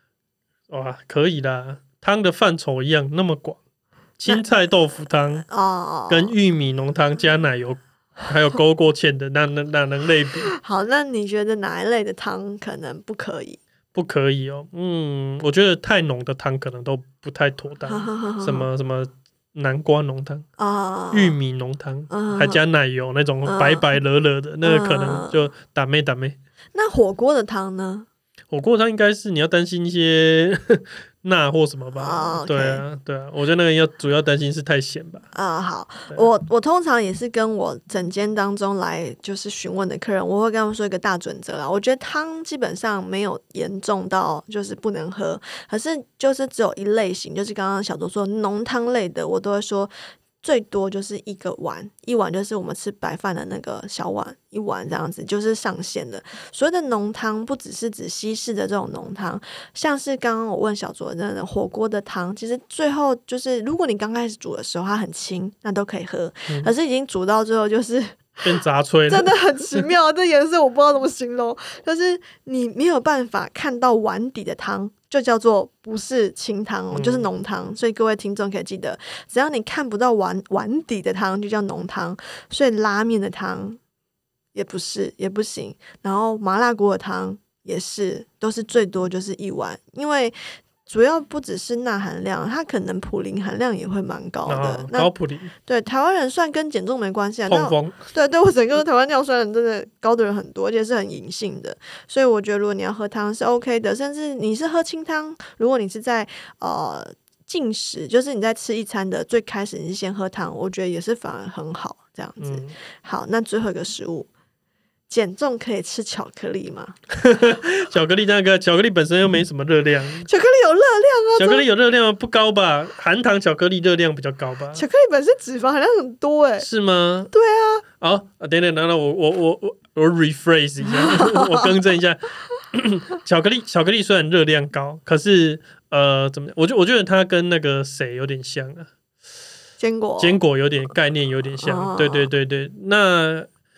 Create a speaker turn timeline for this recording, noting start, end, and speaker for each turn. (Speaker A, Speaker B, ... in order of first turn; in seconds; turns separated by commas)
Speaker A: 0.7-3.6, Speaker A: 4.2-5.5, Speaker B: 5.5-6.3, Speaker A: 6.1-10.5, Speaker B: 10.5-13.6, Speaker A: 13.9-20.5, Speaker B: 17.9-18.7, Speaker B: 20.6-21.4, Speaker A: 21.1-26.4, Speaker B: 22.1-22.6, Speaker B: 23.4-23.9, Speaker B: 24.6-25.5, Speaker B: 26.7-28.1, Speaker A: 28.5-35.3, Speaker B: 32.0-32.8, Speaker B: 35.3-68.5, Speaker A: 68.4-69.9, Speaker B: 69.1-83.8, Speaker A: 76.9-77.3, Speaker B: 84.5-95.1, Speaker A: 94.5-95.5, Speaker B: 95.7-114.3, Speaker A: 97.5-98.0, Speaker A: 112.4-112.7, Speaker B: 115.1-117.0, Speaker A: 117.1-120.3, Speaker B: 120.3-121.7, Speaker A: 121.4-124.8, Speaker B: 124.8-126.7, Speaker A: 126.6-127.3, Speaker B: 127.3-127.8, Speaker A: 128.0-138.9, Speaker B: 130.9-131.7, Speaker B: 139.8-140.4, Speaker A: 140.2-143.5, Speaker B: 141.6-142.3